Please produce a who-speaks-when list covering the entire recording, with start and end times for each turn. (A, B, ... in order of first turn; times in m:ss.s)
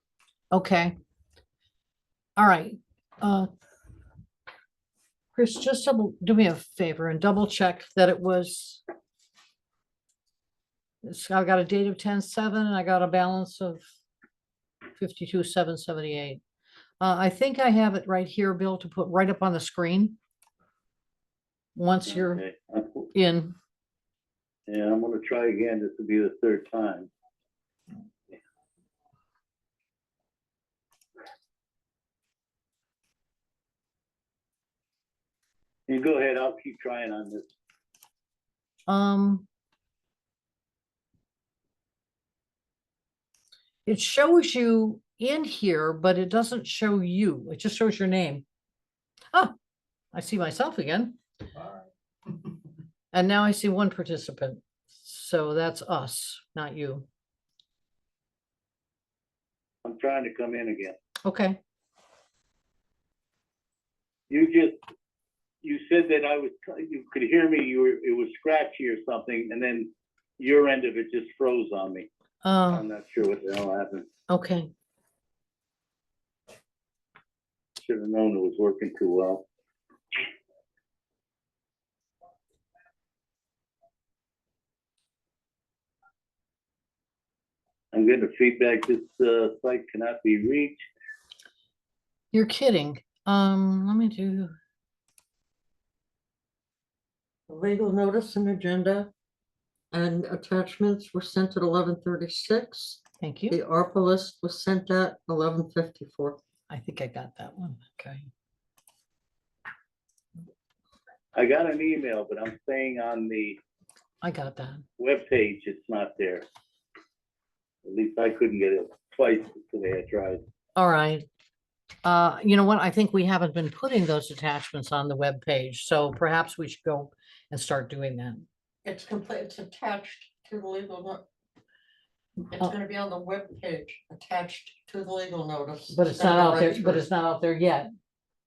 0:00.5-0:01.0 A
0:02.4-0:03.5 A
0:05.4-0:08.8 A
0:11.0-0:13.8 A
0:15.0-0:16.4 A
0:17.0-0:20.2 A
0:21.8-0:22.4 A
0:22.0-0:23.1 B
0:23.1-0:23.6 A
0:24.7-0:27.1 B
0:35.9-0:37.5 B
0:38.9-0:39.5 A
0:43.9-0:48.4 A
0:50.1-0:51.2 A
0:53.1-0:57.1 A
0:59.8-1:01.0 B
1:01.2-1:01.6 A
1:04.3-1:04.8 B
1:05.6-1:12.1 B
1:12.4-1:12.8 A
1:12.7-1:14.1 B
1:14.3-1:14.7 A
1:17.8-1:19.5 B
1:27.9-1:30.9 B
1:32.3-1:34.5 A
1:37.5-1:39.1 C
1:39.9-1:46.4 C
1:43.2-1:43.6 A
1:46.7-1:48.3 A
1:51.3-1:53.6 B
1:54.2-1:54.8 A
1:55.0-1:56.4 B
1:57.8-2:00.4 B
2:00.8-2:01.3 A
2:02.0-2:08.4 A
2:08.8-2:11.2 C
2:12.5-2:17.0 C
2:15.9-2:17.9 A